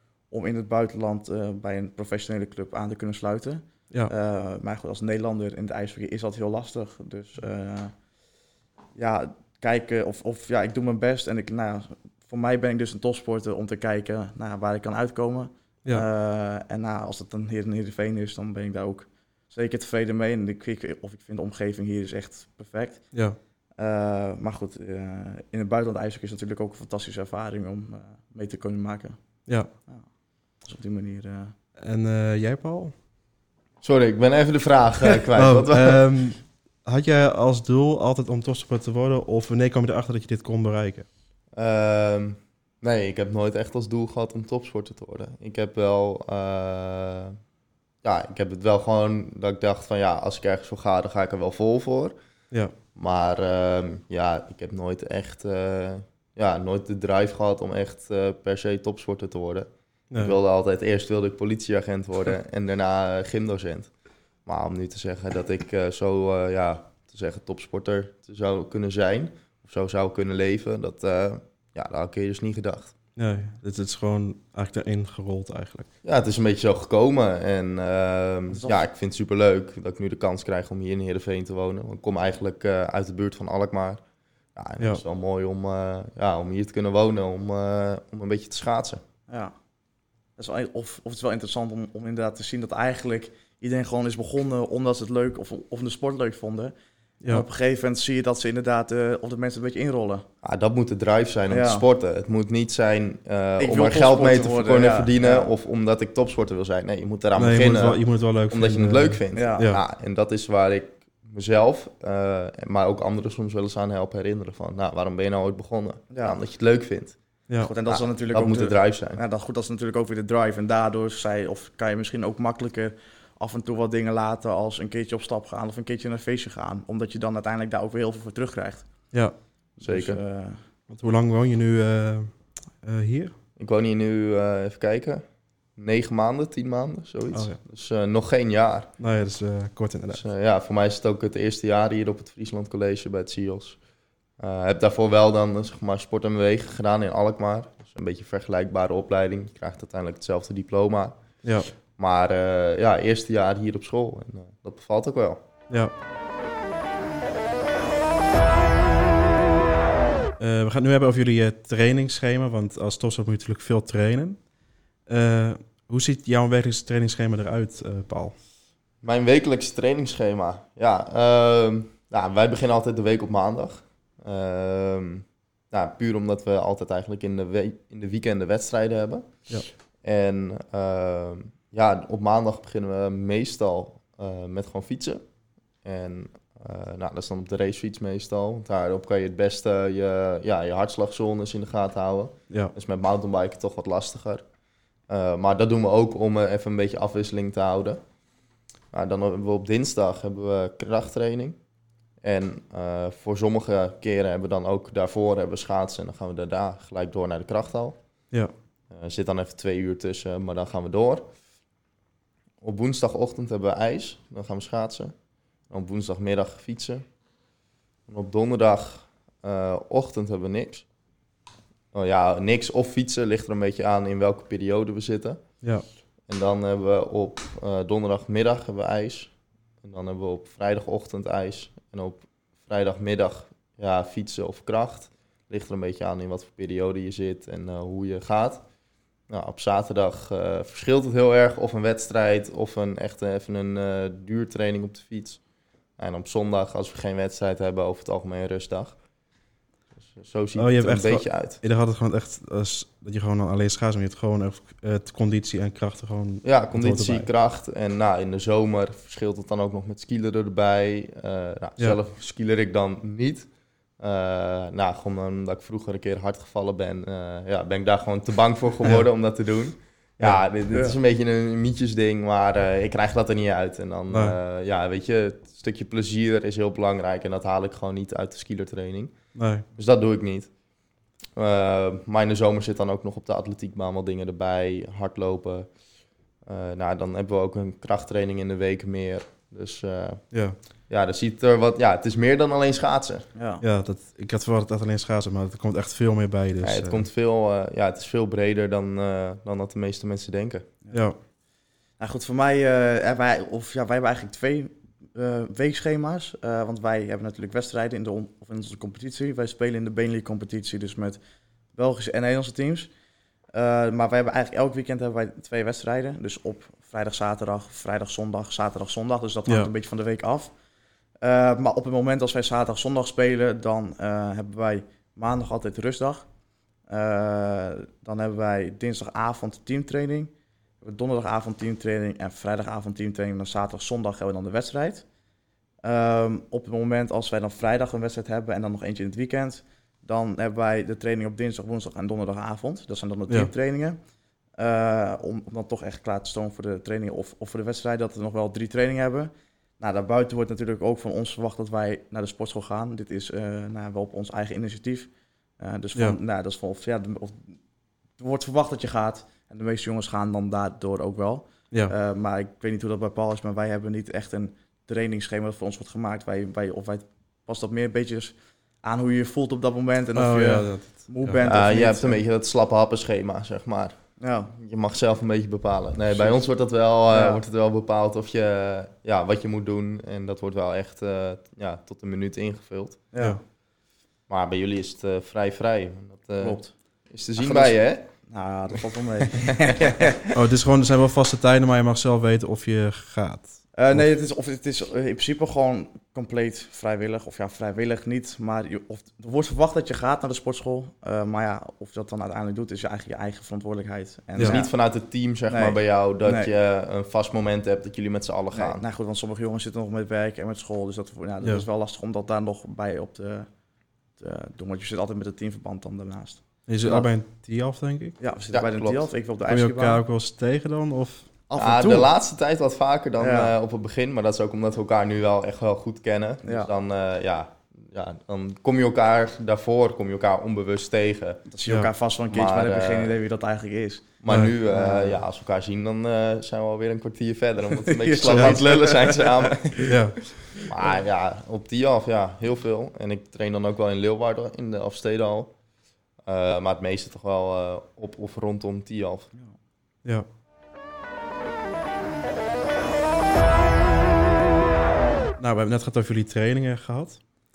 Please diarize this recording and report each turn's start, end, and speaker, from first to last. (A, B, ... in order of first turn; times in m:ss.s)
0:00.3-0:07.9 A
0:09.0-0:23.1 A
0:23.8-0:29.2 A
0:30.6-0:31.6 A
0:31.8-0:32.9 B
0:33.8-0:36.0 C
0:35.4-0:41.1 B
0:41.5-0:47.4 C
0:48.0-0:52.1 C
0:53.0-1:03.9 C
1:00.1-1:00.4 B
1:04.5-1:12.9 C
1:13.2-1:15.9 B
1:16.0-1:24.0 C
1:18.5-1:18.9 A
1:24.6-1:29.0 C
1:29.3-1:29.5 A
1:30.4-1:36.7 A
1:37.3-1:40.2 A
1:40.4-1:57.2 C
1:41.5-1:41.8 A
1:43.6-1:45.5 A
1:47.4-1:49.8 B
1:49.3-1:49.8 A
1:56.1-1:56.4 A
1:57.6-2:08.9 A
1:57.9-1:59.2 C
2:09.8-2:10.6 A
2:09.8-2:10.2 C
2:10.9-2:13.3 B
2:13.6-2:15.2 C
2:15.8-2:18.9 C
2:17.3-2:17.6 B
2:19.0-2:20.2 B
2:20.1-2:23.8 C
2:24.4-2:31.2 C
2:31.4-2:31.7 B
2:32.0-2:35.4 C
2:35.7-2:36.0 B
2:40.4-2:44.4 B
2:45.1-2:48.4 B
2:49.0-2:59.3 C
3:00.0-3:05.2 C
3:05.8-3:14.4 C
3:15.1-3:18.0 C
3:18.9-3:21.6 C
3:22.2-3:28.0 C
3:28.9-3:31.3 C
3:32.6-3:35.1 C
3:35.7-3:37.0 C
3:38.1-3:40.9 C
3:41.9-3:45.4 C
3:46.3-3:58.6 C
3:59.3-4:05.4 C
4:06.0-4:09.0 C
4:10.0-4:11.6 C
4:10.6-4:17.3 B
4:16.4-4:39.1 C
4:30.7-4:31.0 A
4:34.1-4:34.4 B
4:39.4-4:39.6 B
4:39.8-4:40.5 C
4:41.4-4:45.7 C
4:46.4-4:50.2 C
4:50.3-4:50.6 B
4:50.9-4:53.2 C
4:53.4-4:53.6 A
4:53.6-4:57.0 B
4:56.6-5:00.7 C
5:00.9-5:01.2 B
5:02.0-5:11.2 A
5:11.8-5:12.9 A
5:13.5-5:20.5 A
5:21.2-5:26.3 A
5:26.9-5:35.0 A
5:35.8-5:44.0 A
5:44.6-5:57.5 A
5:58.2-6:12.2 A
6:10.2-6:11.4 B
6:11.4-6:14.0 C
6:14.2-6:14.6 A
6:14.6-6:23.0 C
6:16.1-6:17.4 A
6:23.1-6:23.4 A
6:24.3-6:28.1 C
6:26.4-6:26.7 A
6:27.4-6:30.3 A
6:30.3-6:34.0 B
6:33.7-6:44.7 A
6:44.4-6:48.8 C
6:45.5-6:46.5 A
6:48.5-6:53.5 A
6:54.2-6:57.1 A
6:56.7-6:58.2 B
6:58.2-7:00.0 A
6:58.5-6:59.1 C
6:59.5-7:01.3 B
7:01.5-7:02.1 A
7:01.6-7:11.4 C
7:03.2-7:03.5 A
7:06.4-7:06.7 A
7:11.5-7:15.2 A
7:12.3-7:13.2 C
7:14.2-7:20.0 C
7:14.3-7:14.5 B
7:17.8-7:19.9 A
7:18.2-7:18.6 B
7:19.8-7:20.3 B
7:20.6-7:25.5 C
7:26.2-7:29.3 C
7:35.4-7:37.2 B